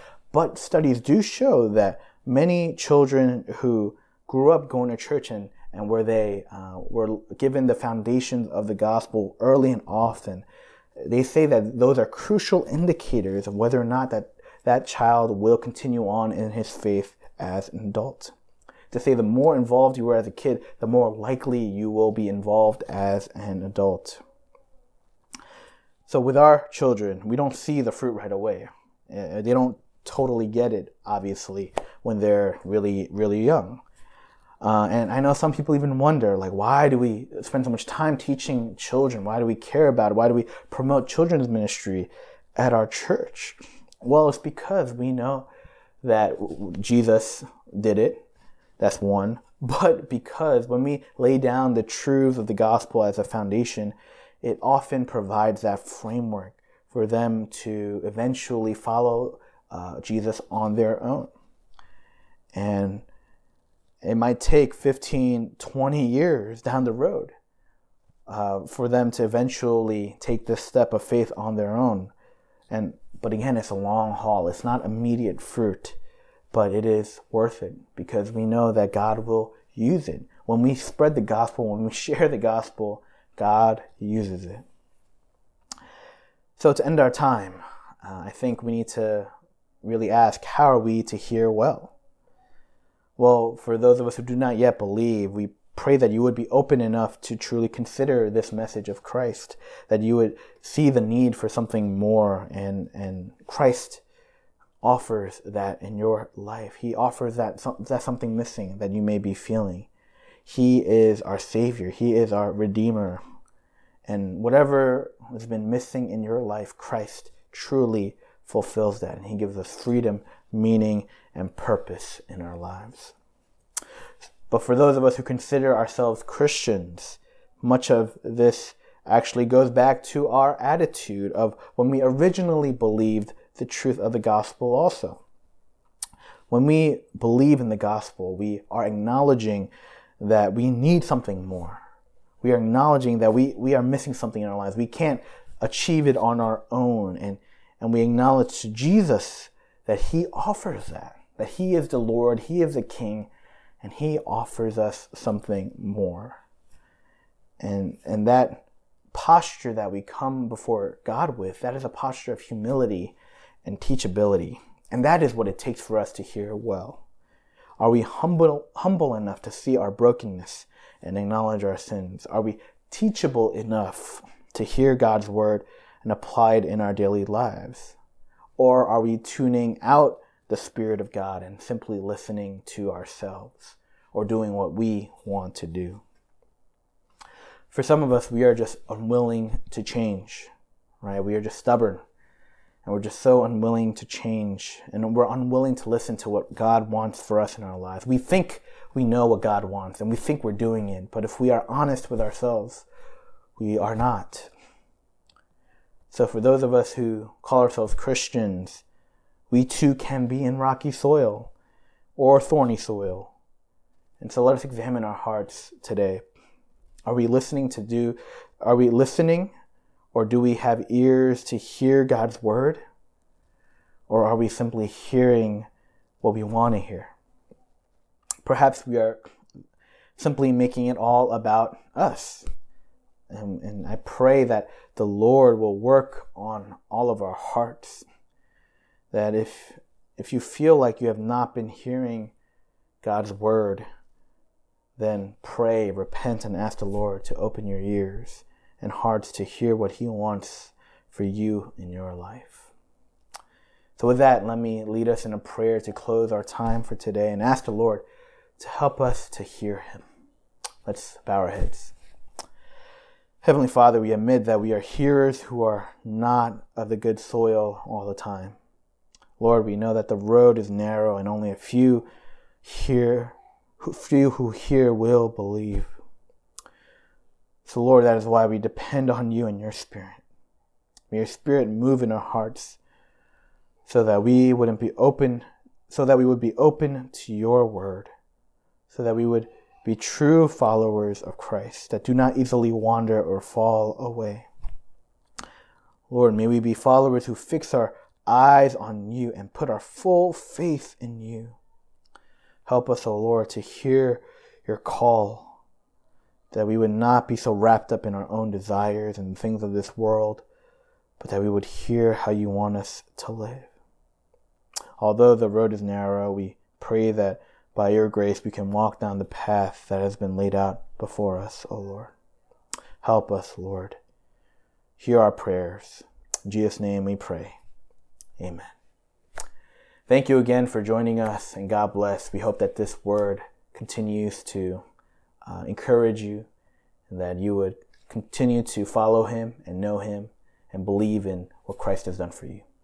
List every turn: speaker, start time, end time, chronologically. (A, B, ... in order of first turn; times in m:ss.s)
0:00.3-0:10.4 A
0:11.0-0:18.3 A
0:18.9-0:24.2 A
0:26.1-0:33.8 A
0:34.6-0:45.5 A
0:46.0-0:48.2 A
0:48.8-1:01.3 A
1:02.5-1:03.0 A
1:04.0-1:07.3 A
1:08.3-1:12.1 A
1:12.7-1:16.0 A
1:16.5-1:24.6 A
1:26.6-1:29.3 A
1:29.8-1:31.9 A
1:33.2-1:44.0 A
1:44.8-1:49.9 A
1:50.4-1:53.2 A
1:54.1-2:03.1 A
2:04.2-2:15.2 A
2:16.5-2:21.8 A
2:22.4-2:33.3 A
2:33.8-2:36.4 A
2:37.6-2:47.0 A
2:47.8-2:58.0 A
2:58.6-3:06.0 A
3:07.7-3:10.5 A
3:11.0-3:12.0 A
3:12.8-3:22.8 A
3:23.6-3:24.5 A
3:26.1-3:28.8 A
3:29.5-3:31.5 A
3:32.2-3:33.3 A
3:34.2-3:36.2 A
3:37.1-3:39.5 A
3:40.1-3:42.8 A
3:44.1-3:45.7 A
3:46.2-3:47.1 A
3:48.4-3:49.2 A
3:50.2-3:52.5 A
3:53.3-3:58.0 A
3:59.1-4:02.3 A
4:03.0-4:03.8 A
4:05.0-4:12.7 A
4:14.0-4:18.0 A
4:18.6-4:20.0 A
4:20.8-4:21.9 A
4:23.4-4:28.6 A
4:29.4-4:32.1 A
4:32.6-4:35.9 A
4:37.6-4:40.2 A
4:41.1-4:42.8 A
4:43.8-4:48.1 A
4:48.9-4:54.5 A
4:56.1-5:01.6 A
5:02.6-5:05.6 A
5:06.5-5:10.4 A
5:11.2-5:13.7 A
5:15.0-5:22.1 A
5:23.0-5:24.0 A
5:25.0-5:27.6 A
5:28.4-5:28.7 A
5:30.1-5:34.8 A
5:35.4-5:36.5 A
5:37.1-5:42.6 A